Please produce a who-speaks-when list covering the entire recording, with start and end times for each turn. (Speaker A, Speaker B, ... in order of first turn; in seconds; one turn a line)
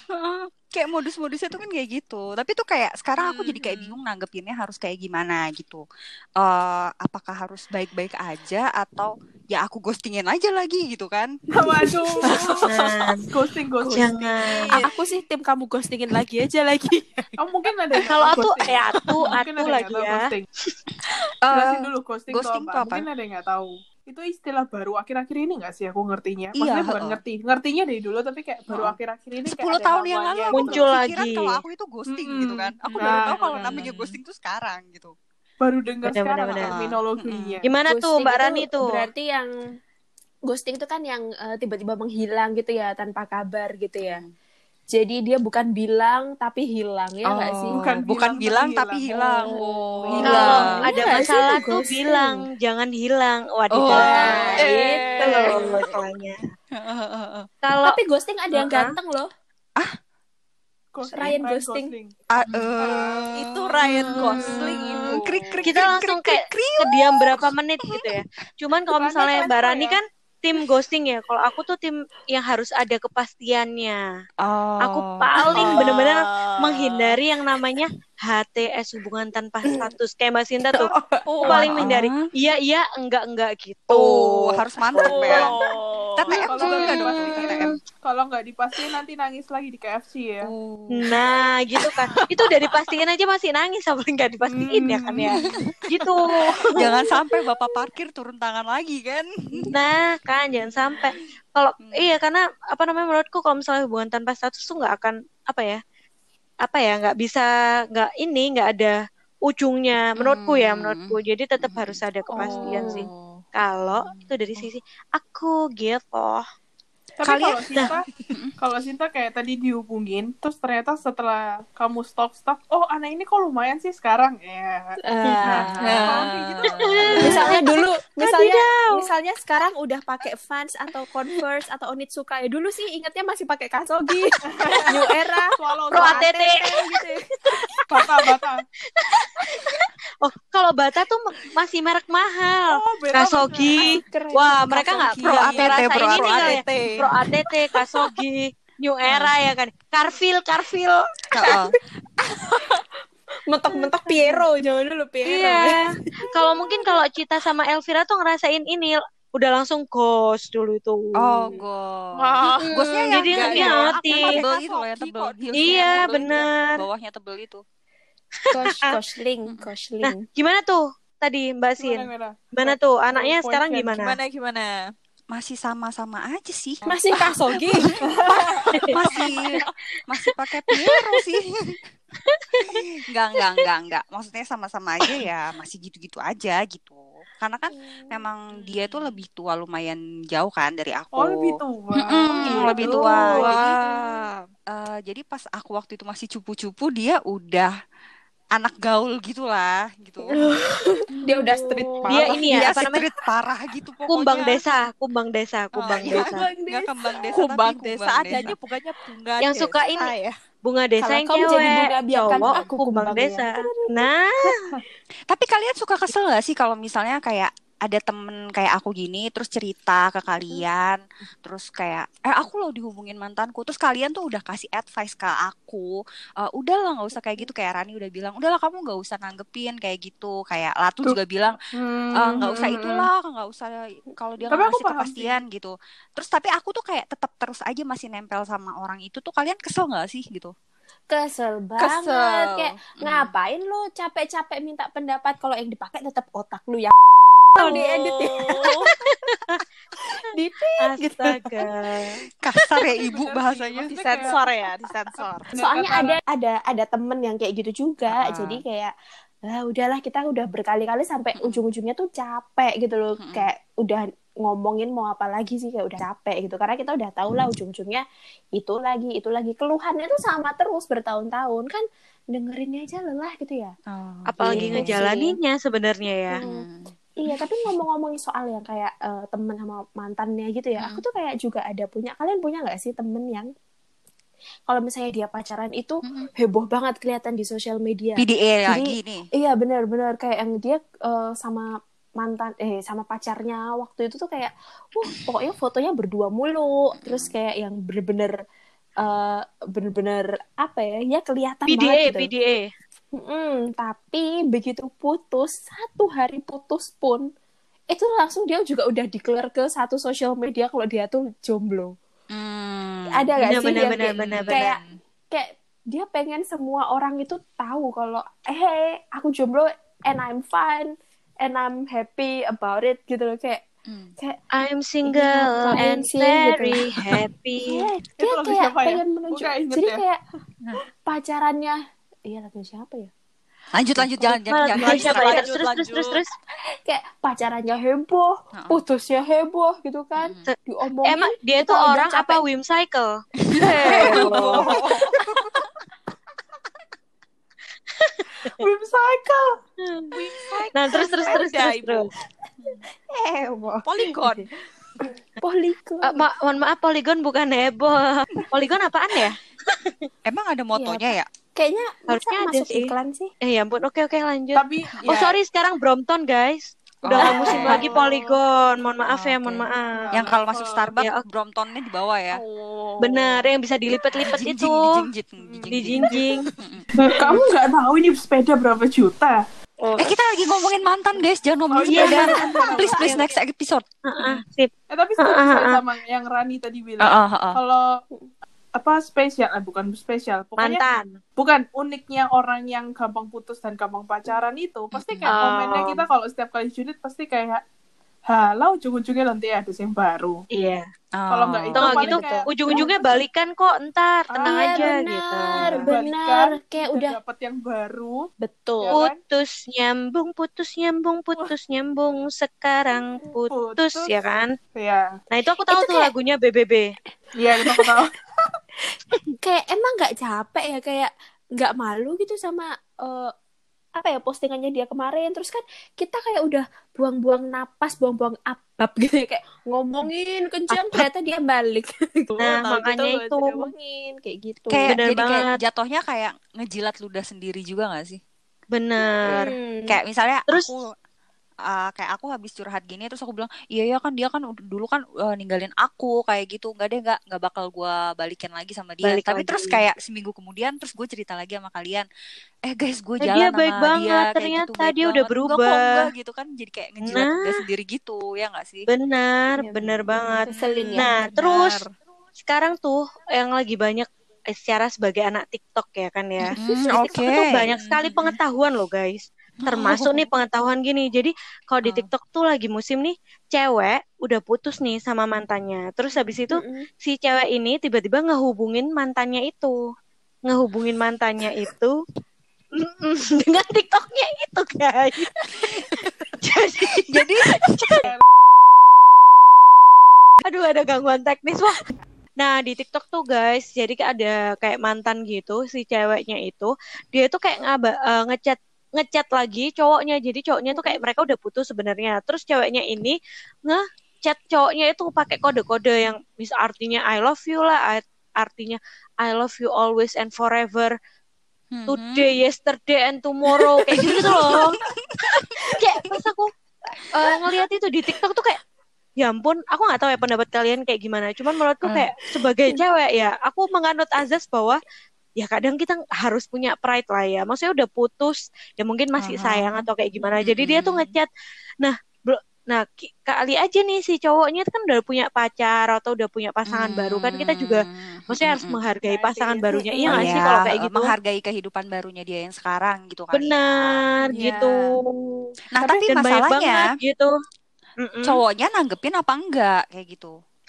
Speaker A: 0.1-5.8
Speaker B: 3.2-4.0
Speaker A: 6.4-11.3
Speaker C: 11.5-12.7
Speaker B: 12.3-12.6
Speaker D: 12.7-13.3
Speaker C: 13.3-14.4
Speaker D: 13.9-14.7
Speaker A: 14.4-14.8
Speaker E: 14.7-17.3
Speaker C: 17.4-20.4
Speaker D: 18.1-20.7
Speaker C: 21.5-30.8
Speaker A: 21.5-23.0
Speaker A: 26.5-27.2
Speaker A: 28.7-35.1
Speaker D: 30.5-31.6
Speaker C: 32.3-33.9
Speaker B: 32.8-34.2
Speaker C: 35.6-37.7
Speaker D: 36.0-36.8
Speaker A: 36.6-37.6
Speaker D: 37.6-39.1
Speaker E: 37.9-39.5
Speaker E: 40.5-44.2
Speaker A: 44.0-44.3
Speaker E: 44.9-47.8
Speaker A: 47.2-49.5
Speaker C: 47.7-51.1
Speaker E: 49.5-52.4
Speaker B: 49.6-50.7
Speaker A: 50.2-50.8
Speaker D: 50.2-54.6
Speaker A: 53.7-54.3
Speaker C: 53.9-54.8
Speaker E: 54.1-55.6
Speaker B: 54.1-55.7
Speaker D: 55.2-56.5
Speaker A: 55.5-56.0
Speaker A: 56.8-57.5
Speaker D: 57.6-58.0
Speaker E: 57.8-59.3
Speaker D: 58.5-58.9
Speaker C: 60.9-62.1
Speaker E: 61.1-61.9
Speaker A: 62.3-68.2
Speaker C: 62.8-63.3
Speaker B: 63.3-65.6
Speaker D: 64.3-64.7
Speaker D: 65.6-74.0
Speaker C: 68.9-70.0
Speaker A: 74.4-75.9
Speaker D: 74.8-80.9
Speaker B: 75.5-77.2
Speaker E: 80.7-81.2
Speaker B: 81.3-81.7
Speaker D: 81.4-85.5
Speaker A: 81.4-82.2
Speaker A: 83.9-85.5
Speaker C: 85.0-85.5
Speaker B: 85.2-86.4
Speaker A: 86.2-87.8
Speaker C: 86.5-90.5
Speaker A: 90.4-91.2
Speaker D: 90.9-96.7
Speaker C: 94.5-95.2
Speaker A: 96.7-99.7
Speaker D: 99.7-105.8
Speaker D: 106.6-116.4
Speaker A: 110.2-112.0
Speaker E: 112.3-113.1
Speaker B: 112.4-113.4
Speaker A: 114.0-114.7
Speaker C: 117.2-125.0
Speaker A: 117.2-118.5
Speaker E: 125.0-126.0
Speaker A: 125.4-127.5
Speaker B: 125.8-127.4
Speaker C: 126.0-126.7
Speaker D: 127.1-129.1
Speaker E: 127.2-137.2
Speaker C: 134.5-134.9
Speaker C: 135.6-136.3
Speaker D: 135.9-136.8
Speaker C: 137.9-138.6
Speaker D: 137.9-138.3
Speaker D: 139.0-139.6
Speaker D: 140.2-151.5
Speaker C: 142.7-144.0
Speaker E: 143.8-145.6
Speaker A: 145.2-146.6
Speaker B: 145.2-147.0
Speaker A: 149.1-149.3
Speaker A: 151.3-151.7
Speaker E: 152.2-152.8
Speaker E: 153.5-156.9
Speaker D: 155.2-155.8
Speaker D: 156.3-161.6
Speaker A: 161.2-167.6
Speaker D: 162.7-164.3
Speaker B: 163.1-166.4
Speaker D: 165.5-166.8
Speaker E: 168.5-170.2
Speaker D: 170.0-174.2
Speaker C: 171.8-174.0
Speaker B: 174.0-174.7
Speaker A: 175.3-177.0
Speaker E: 176.9-177.9
Speaker A: 178.2-181.8
Speaker D: 182.3-182.8
Speaker A: 182.7-193.6
Speaker E: 187.8-188.1
Speaker B: 188.7-189.1
Speaker C: 191.1-192.9
Speaker D: 192.6-193.8
Speaker E: 192.7-193.3
Speaker B: 192.7-194.1
Speaker A: 194.7-197.7
Speaker A: 198.6-200.3
Speaker E: 200.4-202.6
Speaker A: 202.0-204.6
Speaker D: 202.1-203.0
Speaker D: 204.1-206.4
Speaker A: 205.8-208.5
Speaker E: 206.1-207.1
Speaker B: 207.3-210.3
Speaker D: 209.4-210.1
Speaker D: 210.6-214.5
Speaker E: 211.0-214.1
Speaker A: 212.4-212.7
Speaker A: 215.3-231.6
Speaker C: 231.7-232.8
Speaker A: 232.2-240.5
Speaker C: 234.5-235.4
Speaker E: 241.1-246.9
Speaker A: 241.8-243.3
Speaker E: 247.5-248.9
Speaker D: 247.6-247.9
Speaker B: 247.6-248.7
Speaker E: 250.3-251.4
Speaker D: 250.8-252.2
Speaker A: 252.4-253.9
Speaker C: 252.9-254.4
Speaker B: 253.9-255.5
Speaker C: 255.2-256.2
Speaker E: 255.6-258.9
Speaker A: 258.1-258.6
Speaker E: 259.4-268.0
Speaker A: 261.4-261.6
Speaker A: 263.2-263.5
Speaker E: 268.6-273.7
Speaker A: 273.9-275.0
Speaker D: 274.3-276.4
Speaker E: 274.4-275.3
Speaker E: 276.3-276.6
Speaker A: 276.4-277.4
Speaker E: 277.2-283.5
Speaker A: 280.8-281.0
Speaker E: 284.7-298.4
Speaker A: 286.0-286.3
Speaker A: 288.2-289.2
Speaker A: 296.9-297.3
Speaker E: 299.0-302.3
Speaker D: 301.7-302.7
Speaker E: 303.1-307.2
Speaker E: 307.9-311.9
Speaker A: 312.3-315.0
Speaker E: 313.1-314.8
Speaker D: 313.4-314.6
Speaker E: 315.3-323.6
Speaker A: 323.9-324.1
Speaker D: 324.6-327.8
Speaker E: 325.1-326.8
Speaker A: 326.9-327.2
Speaker E: 327.6-330.2
Speaker C: 328.2-330.0
Speaker E: 331.1-333.1
Speaker A: 333.7-335.5
Speaker D: 334.3-336.3
Speaker B: 334.8-336.1
Speaker E: 336.8-342.4
Speaker A: 338.5-338.8
Speaker A: 340.2-340.5
Speaker D: 340.5-343.1
Speaker A: 343.6-345.6
Speaker D: 343.7-344.7
Speaker E: 343.8-344.1
Speaker B: 343.9-344.5
Speaker D: 348.0-348.5
Speaker C: 348.6-349.5
Speaker D: 349.8-350.1
Speaker B: 350.1-352.1
Speaker D: 350.7-352.1
Speaker E: 353.1-354.3
Speaker B: 353.8-354.5
Speaker E: 355.4-356.2
Speaker D: 356.0-360.1
Speaker A: 360.2-361.3
Speaker E: 360.7-363.3
Speaker D: 362.1-362.9
Speaker D: 363.4-370.3
Speaker C: 364.5-365.4
Speaker A: 367.0-367.9
Speaker E: 367.2-367.9
Speaker C: 367.3-368.4
Speaker A: 369.1-372.4
Speaker C: 369.9-370.9
Speaker B: 372.4-373.4
Speaker D: 373.0-374.8
Speaker A: 374.0-376.9
Speaker D: 375.7-376.4
Speaker C: 376.9-379.4
Speaker D: 379.8-380.1
Speaker A: 380.0-384.4
Speaker C: 381.7-383.2
Speaker D: 381.9-383.2
Speaker D: 384.1-385.8
Speaker C: 384.9-387.9
Speaker A: 387.0-387.6
Speaker C: 388.8-390.8
Speaker D: 390.6-391.2
Speaker C: 391.4-397.6
Speaker A: 394.9-395.3
Speaker D: 395.3-396.0
Speaker C: 398.3-400.4
Speaker D: 400.5-400.8
Speaker A: 401.1-401.8
Speaker C: 401.3-403.1
Speaker D: 401.7-405.9
Speaker E: 401.8-403.0
Speaker C: 404.3-408.3
Speaker E: 404.4-407.2
Speaker E: 408.4-409.0
Speaker C: 408.8-409.2
Speaker D: 408.9-414.5
Speaker C: 413.5-414.2
Speaker C: 414.8-415.1
Speaker D: 415.3-416.9
Speaker E: 415.7-416.1
Speaker C: 417.4-418.1
Speaker E: 419.4-423.3
Speaker E: 424.0-434.9
Speaker D: 430.7-431.0
Speaker D: 432.4-433.7
Speaker A: 434.7-438.2
Speaker D: 434.9-435.5
Speaker D: 438.7-439.5
Speaker E: 439.2-440.0
Speaker A: 439.3-440.9
Speaker A: 441.7-452.1
Speaker D: 449.0-449.8
Speaker A: 452.6-458.9
Speaker D: 453.2-455.9
Speaker D: 457.1-457.4
Speaker D: 458.9-461.8
Speaker E: 460.5-461.1
Speaker B: 460.5-461.9
Speaker D: 462.4-479.8
Speaker A: 466.5-468.2
Speaker B: 467.9-468.3
Speaker A: 469.6-470.2
Speaker E: 476.5-476.9
Speaker D: 480.5-481.9
Speaker D: 482.8-488.0
Speaker A: 485.6-486.1
Speaker A: 486.8-488.1
Speaker D: 490.4-491.8
Speaker D: 492.4-510.9
Speaker E: 500.7-501.0
Speaker A: 511.7-512.2
Speaker D: 511.9-514.8
Speaker A: 514.0-515.9
Speaker D: 515.6-516.5
Speaker D: 517.1-518.6
Speaker D: 519.2-524.8
Speaker D: 525.4-531.3
Speaker A: 529.2-529.8
Speaker A: 530.4-531.1
Speaker D: 531.8-541.1
Speaker A: 536.7-538.8
Speaker C: 539.1-539.6
Speaker E: 539.2-540.4
Speaker A: 540.1-544.2
Speaker D: 543.3-547.3
Speaker B: 544.3-544.8
Speaker A: 545.7-546.8
Speaker D: 548.0-548.4
Speaker A: 548.2-550.3